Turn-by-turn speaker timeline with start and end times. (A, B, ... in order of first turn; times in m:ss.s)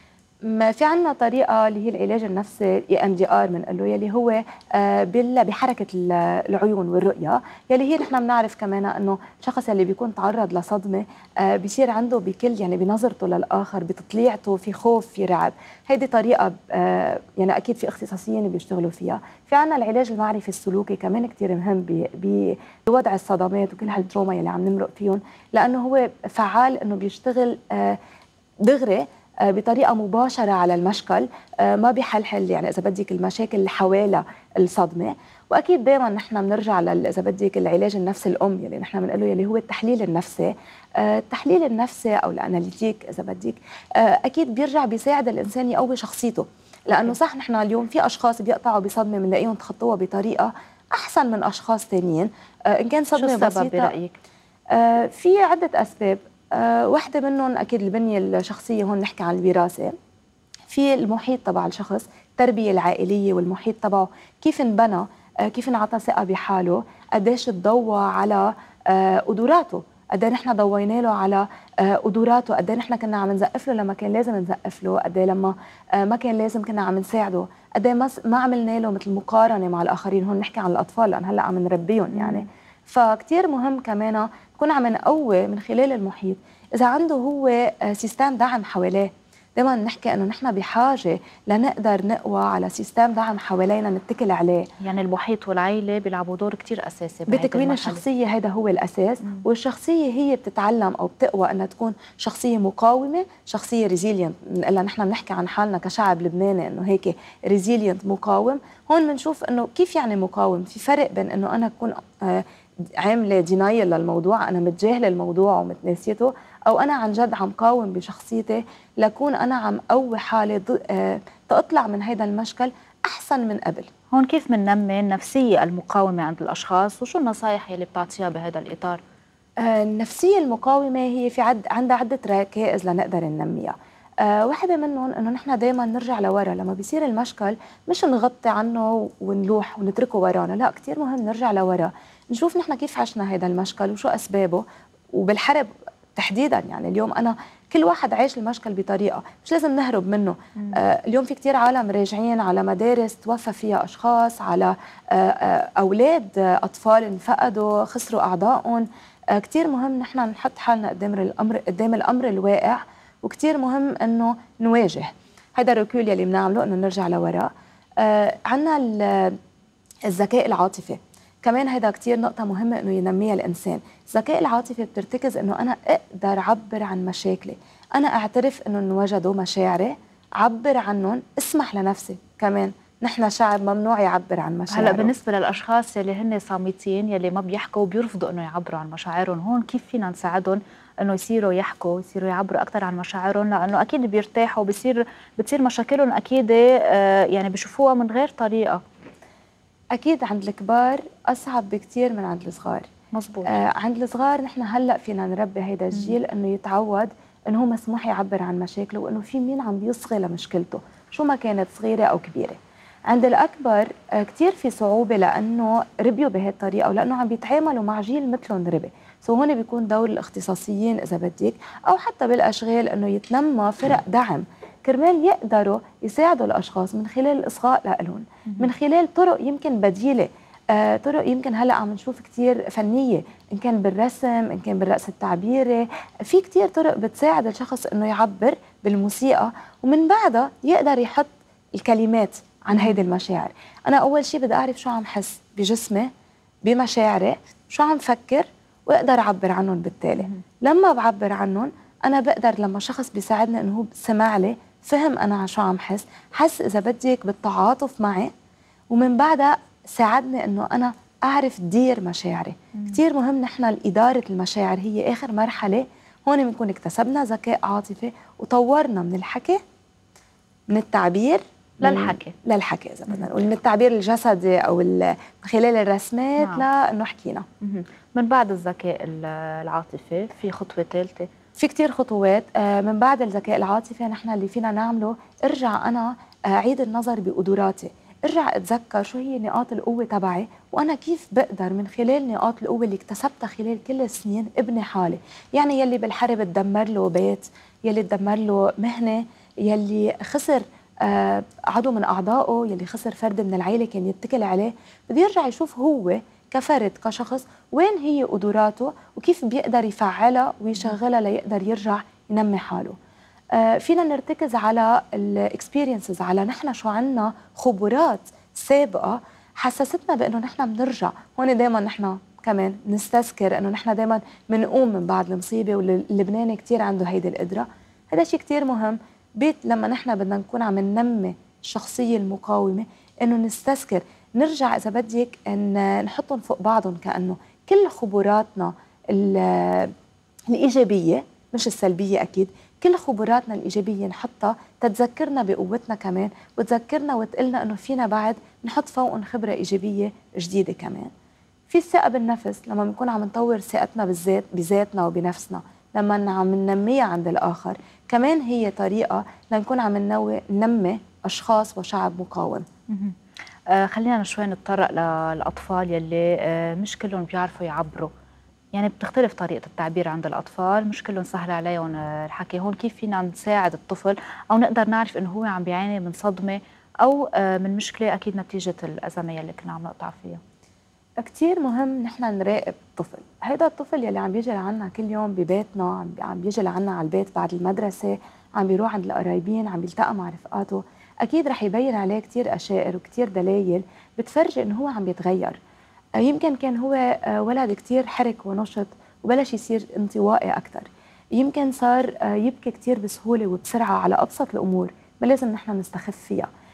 0:00.5-0:28.0 A
0:28.6-0:53.9 A
0:46.9-0:47.2 B
0:53.1-0:54.2 B
0:54.7-1:00.0 A
1:00.7-1:34.7 A
1:22.1-1:22.5 B
1:34.8-1:38.0 B
1:37.3-1:52.4 A
1:53.0-2:03.9 A
2:04.1-2:09.0 B
2:09.6-2:49.4 A
2:50.0-3:05.1 A
3:04.7-3:18.8 B
3:19.9-3:22.9 A
3:23.1-3:23.5 B
3:23.5-4:06.1 A
4:02.7-4:03.0 B
4:06.6-4:18.3 A
4:18.9-4:29.6 A
4:30.7-4:37.4 A
4:31.8-4:32.3 B
4:36.4-4:36.6 B
4:37.6-4:41.3 B
4:41.6-5:13.0 A
5:13.5-5:39.9 A
5:40.5-5:51.1 A
5:51.7-6:02.7 A
6:02.9-6:03.2 B
6:03.7-6:08.1 B
6:08.7-6:20.4 B
6:21.2-6:35.6 A
6:36.2-6:46.5 A